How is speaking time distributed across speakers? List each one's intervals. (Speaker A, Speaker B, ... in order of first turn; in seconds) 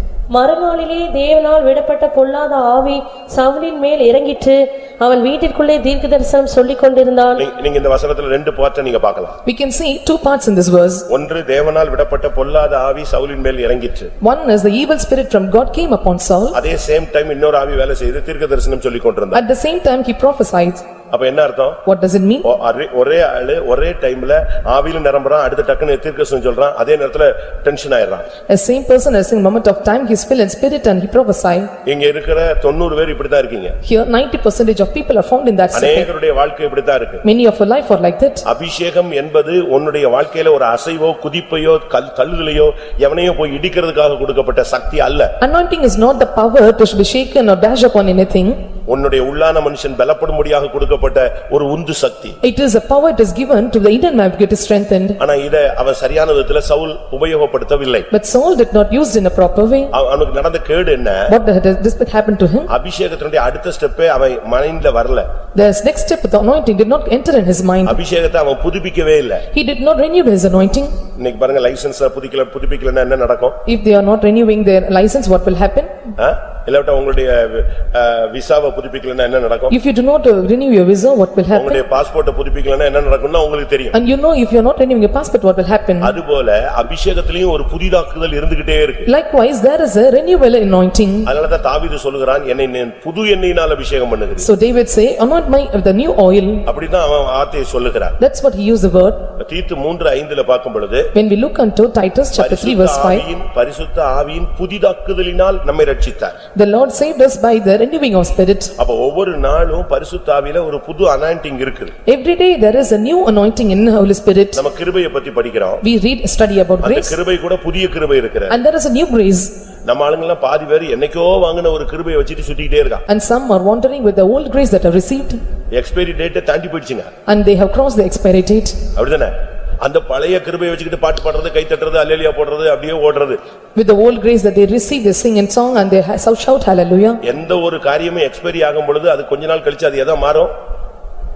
Speaker A: 0.3-7.4
Speaker B: 7.4-9.4, 11.1-14.1, 16.5-19.4, 21.1-21.8, 22.4-28.2, 31.8-33.8, 35.7-37.2, 38.4-45.3, 48.9-52.4, 55.2-58.1, 59.9-61.3, 62.7-65.3, 67.9-69.5, 71.2-73.6, 76.2-79.7, 81.5-84.0, 86.0-89.1, 91.2-94.5, 96.7-98.2, 99.4-101.1, 102.3-106.3, 108.8-111.9, 114.5-115.8, 116.8-118.6, 119.8-123.0, 125.7-127.1, 128.9-133.4, 137.2-140.5
Speaker C: 9.4-11.1, 14.2-16.6, 19.3-20.8, 21.8-22.4, 28.5-31.7, 33.8-36.1, 37.2-38.4, 45.4-48.6, 52.4-55.2, 58.1-59.9, 61.3-62.7, 65.5-68.0, 69.5-71.0, 73.7-75.9, 79.7-81.8, 83.9-86.2, 89.1-91.3, 94.4-96.7, 98.2-99.2, 101.1-103.2, 106.5-108.7, 112.0-114.6, 115.8-117.2, 118.5-119.5, 123.1-125.4, 127.3-128.8, 133.8-137.2